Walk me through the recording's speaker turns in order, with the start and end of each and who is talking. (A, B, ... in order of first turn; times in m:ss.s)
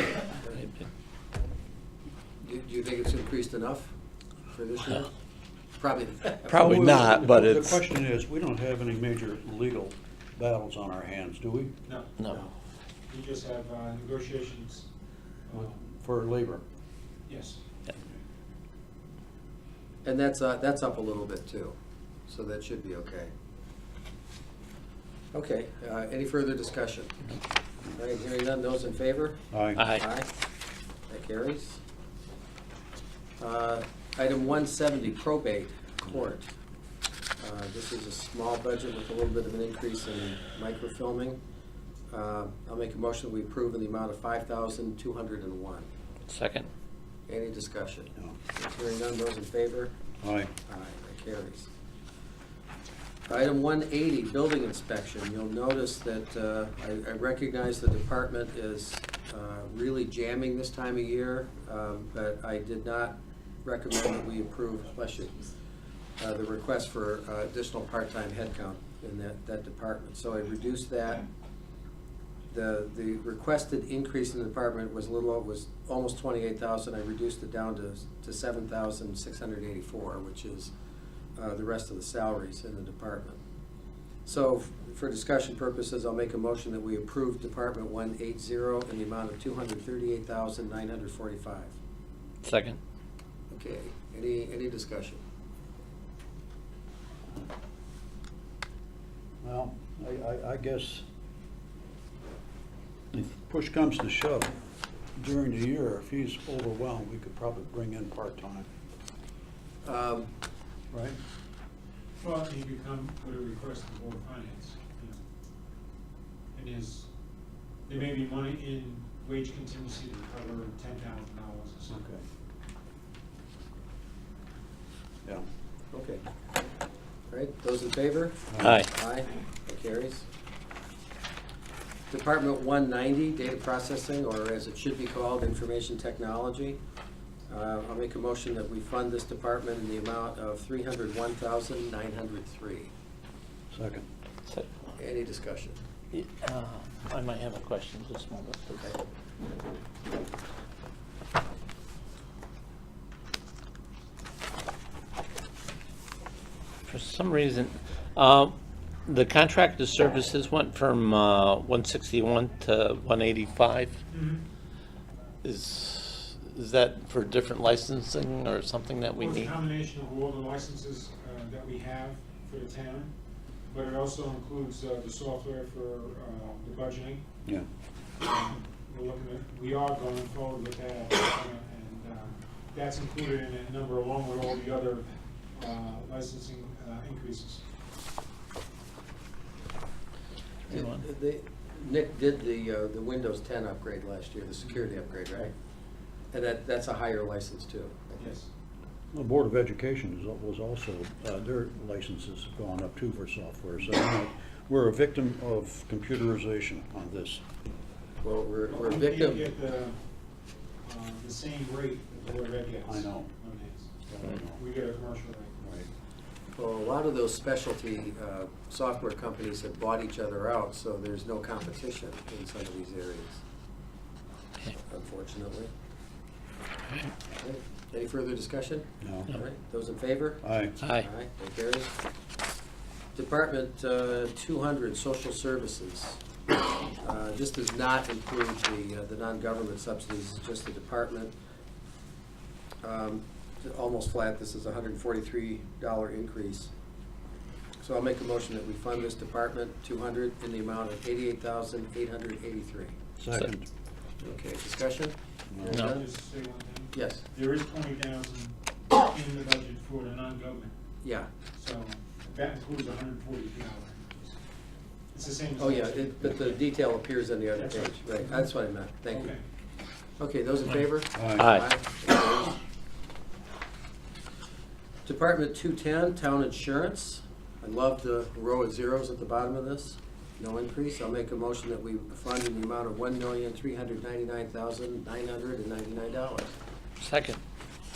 0:00.3-0:00.6 A
0:00.5-0:00.8 B
0:02.4-0:03.9 A
0:04.5-0:05.1 A
0:05.8-0:06.6 A
0:06.4-0:07.8 B
0:06.5-0:11.8 C
0:11.9-0:12.3 D
0:13.1-0:14.9 D
0:15.5-0:15.8 D
0:15.6-0:16.6 C
0:17.3-0:17.6 D
0:20.0-0:21.7 A
0:22.3-0:23.3 A
0:25.3-0:27.2 A
0:27.9-0:30.3 A
0:29.5-0:29.8 C
0:29.8-0:30.0 B
0:31.1-0:31.8 A
0:33.4-0:36.5 A
0:37.4-0:41.4 A
0:42.1-0:45.9 A
0:46.3-0:46.7 B
0:47.3-0:49.9 A
0:50.2-0:50.5 C
0:50.7-0:51.7 A
0:53.3-1:05.5 A
1:06.2-1:11.2 A
1:12.5-1:20.7 A
1:21.4-1:23.4 A
1:24.2-1:31.8 A
1:32.4-1:32.8 B
1:33.5-1:35.2 A
1:39.4-1:41.0 C
1:43.1-1:44.6 C
1:45.2-1:48.7 C
1:49.8-1:50.3 A
1:52.2-1:55.2 D
1:56.6-1:57.1 D
1:57.9-2:02.0 D
2:01.9-2:02.2 C
2:05.9-2:06.2 A
2:07.3-2:10.2 A
2:08.5-2:08.8 C
2:08.6-2:08.9 B
2:12.1-2:16.8 A
2:17.5-2:22.9 A
2:23.7-2:24.1 C
2:24.5-2:24.9 B
2:25.0-2:25.8 A
2:26.1-2:28.9 B
2:36.9-2:44.0 B
2:44.1-2:44.4 D
2:45.4-2:49.5 B
2:49.2-2:53.1 D
2:53.7-2:57.2 D
2:58.2-3:07.6 D
3:10.7-3:11.0 B
3:10.7-3:15.5 A
3:16.3-3:18.3 A
3:18.2-3:18.5 D
3:19.1-3:27.4 C
3:28.2-3:29.5 A
3:28.7-3:30.0 D
3:30.8-3:35.6 D
3:32.9-3:33.3 C
3:34.1-3:34.6 C
3:35.6-3:35.9 C
3:36.6-3:43.4 A
3:44.8-3:45.7 A
3:47.4-3:51.9 A
3:49.0-3:49.3 C
3:50.4-3:50.8 C
3:50.8-3:51.1 B
3:53.2-3:56.2 A
3:57.0-4:01.3 A
4:02.8-4:06.7 A
4:07.8-4:13.0 A
4:13.2-4:13.7 C
4:14.2-4:16.1 A
4:15.5-4:15.8 C
4:15.7-4:20.7 D
4:15.7-4:16.0 B
4:16.9-4:17.2 A
4:21.0-4:21.3 A
4:21.6-4:24.4 D
4:25.1-4:26.6 D
4:25.6-4:29.3 A
4:27.6-4:28.5 D
4:29.1-4:29.4 D
4:30.2-4:32.6 A
4:31.2-4:31.4 C
4:31.4-4:31.7 B
4:35.0-4:46.5 A
4:47.0-4:47.4 B